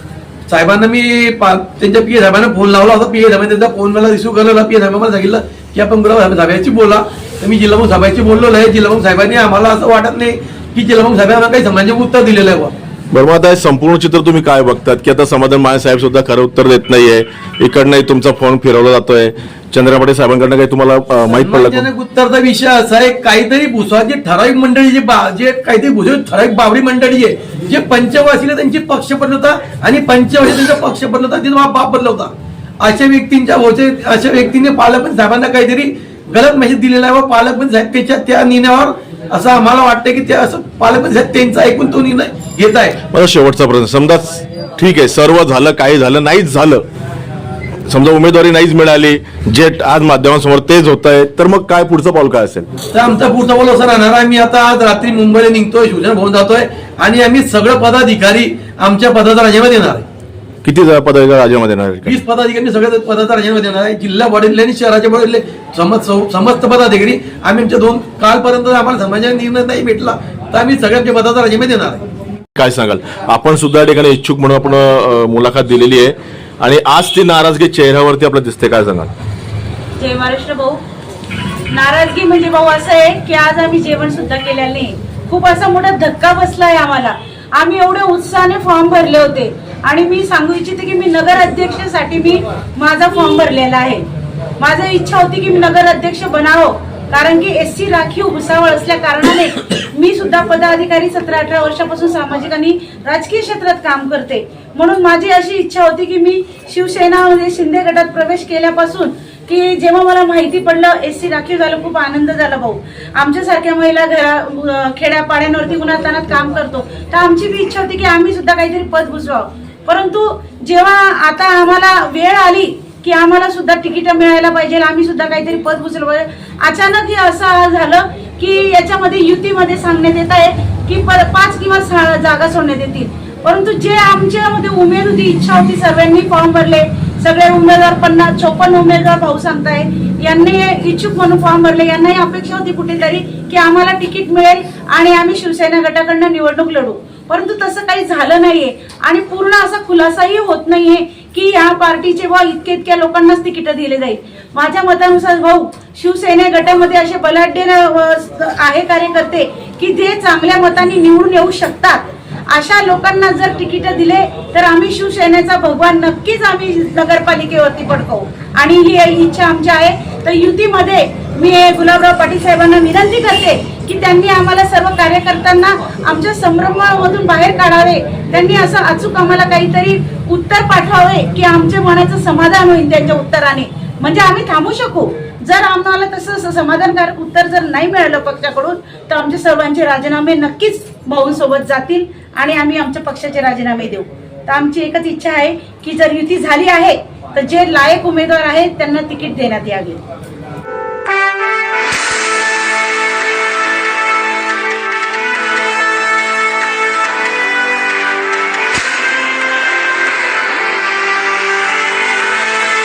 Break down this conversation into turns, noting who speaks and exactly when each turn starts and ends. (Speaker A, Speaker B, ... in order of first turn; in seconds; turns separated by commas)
Speaker A: 0.5-12.7, Speaker B: 13.1-21.9, Speaker A: 21.3-43.0, Speaker B: 43.1-46.9, Speaker B: 47.9-52.7, Speaker A: 52.9-60.0, Speaker B: 60.6-62.2, Speaker A: 62.0-72.0, Speaker B: 72.5-79.1, Speaker C: 80.0-80.8, Speaker C: 81.7-94.0, Speaker C: 94.6-200.0